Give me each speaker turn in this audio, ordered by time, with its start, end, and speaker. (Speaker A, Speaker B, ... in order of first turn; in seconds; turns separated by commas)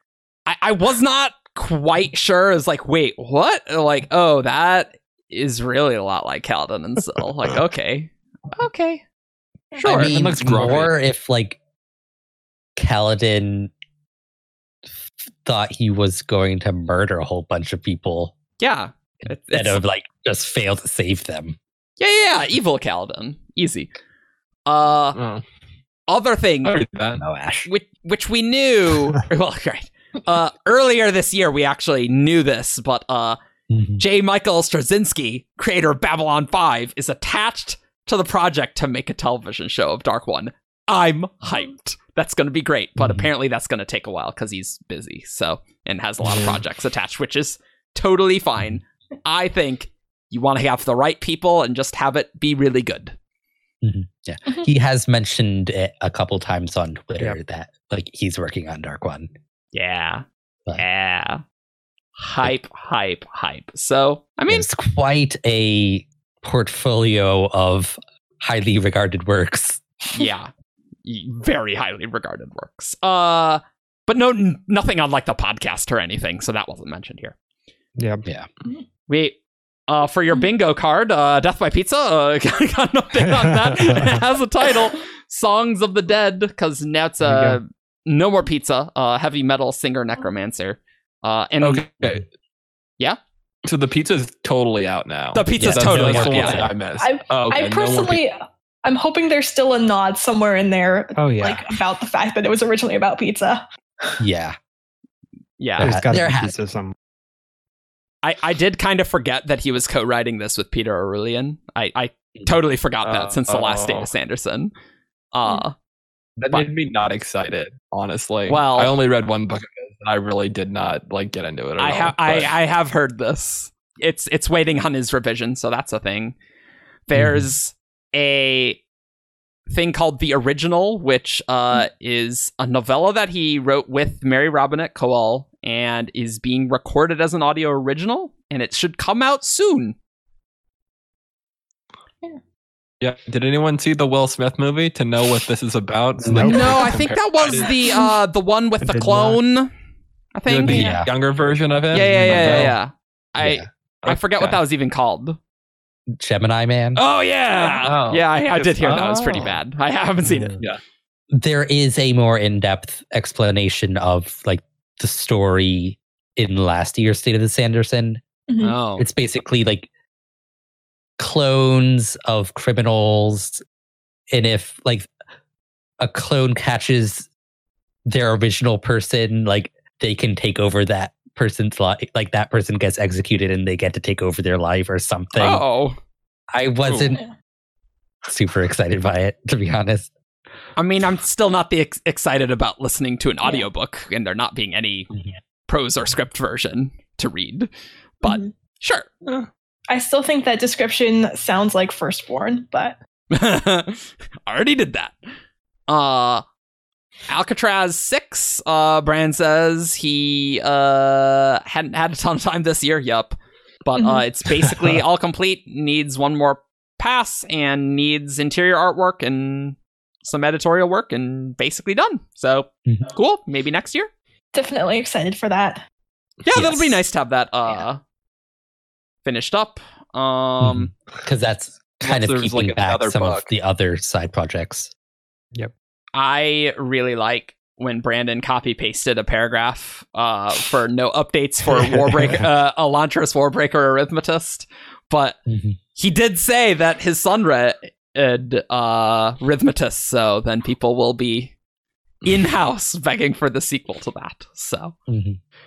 Speaker A: 0.5-9.0, Speaker A: 9.8-10.1, Speaker B: 9.8-11.6, Speaker C: 9.9-10.9, Speaker B: 12.8-13.7, Speaker B: 15.4-18.4, Speaker A: 18.6-19.8, Speaker B: 19.2-21.6, Speaker A: 22.0-23.9, Speaker A: 24.7-25.2, Speaker C: 25.2-25.4, Speaker A: 26.1-26.8, Speaker C: 26.6-27.2, Speaker B: 27.2-27.7, Speaker A: 27.7-33.4, Speaker B: 33.7-34.0, Speaker A: 34.0-53.2, Speaker B: 43.0-43.3, Speaker B: 53.8-59.3, Speaker A: 59.7-60.2, Speaker A: 60.8-61.4, Speaker A: 62.2-64.7, Speaker B: 64.5-69.8, Speaker A: 70.1-70.5, Speaker A: 71.0-77.3, Speaker D: 78.0-78.2, Speaker A: 79.1-79.4, Speaker A: 79.9-91.8, Speaker D: 83.4-84.2, Speaker D: 87.2-87.6, Speaker C: 91.6-92.2, Speaker C: 93.7-98.2, Speaker A: 95.3-96.7, Speaker B: 95.6-96.8, Speaker E: 97.0-104.2, Speaker D: 101.2-101.6, Speaker B: 104.2-104.6, Speaker A: 105.6-106.0, Speaker D: 105.8-106.9, Speaker B: 105.8-106.6, Speaker A: 108.2-114.7, Speaker C: 113.0-114.1, Speaker A: 115.3-115.7, Speaker C: 116.4-122.5, Speaker A: 118.5-119.0, Speaker A: 121.8-126.4, Speaker A: 127.1-128.8, Speaker B: 127.1-127.5, Speaker A: 129.7-140.0, Speaker C: 143.0-147.7, Speaker D: 146.2-146.9, Speaker A: 146.4-149.7, Speaker D: 148.8-149.4, Speaker A: 150.3-150.9, Speaker C: 150.5-152.8, Speaker B: 150.7-151.1, Speaker E: 150.7-151.0, Speaker A: 151.9-155.4, Speaker B: 152.0-152.7, Speaker B: 153.4-153.7, Speaker C: 154.0-154.6, Speaker B: 156.1-157.0, Speaker A: 157.0-160.6, Speaker C: 157.8-159.3, Speaker B: 158.8-159.5, Speaker B: 161.3-168.2, Speaker E: 168.5-168.8, Speaker A: 168.6-169.1, Speaker B: 169.0-169.9, Speaker B: 171.2-173.6, Speaker B: 174.3-175.1, Speaker B: 176.0-177.3, Speaker B: 178.1-185.6, Speaker A: 185.3-186.0, Speaker B: 186.5-187.2, Speaker B: 188.2-190.1, Speaker A: 190.8-195.1, Speaker A: 195.7-197.7, Speaker A: 198.2-199.1, Speaker E: 198.2-198.5, Speaker E: 199.9-203.0, Speaker A: 203.3-205.2, Speaker A: 205.9-206.4, Speaker A: 207.3-224.1, Speaker E: 214.0-214.2, Speaker E: 224.5-225.8, Speaker A: 226.4-228.0, Speaker B: 226.5-227.0, Speaker A: 229.2-230.9, Speaker B: 230.6-234.9, Speaker C: 232.0-233.5, Speaker A: 236.2-245.4, Speaker D: 241.8-242.4, Speaker B: 245.5-245.8, Speaker A: 246.0-251.5, Speaker A: 252.2-254.9, Speaker B: 255.1-255.4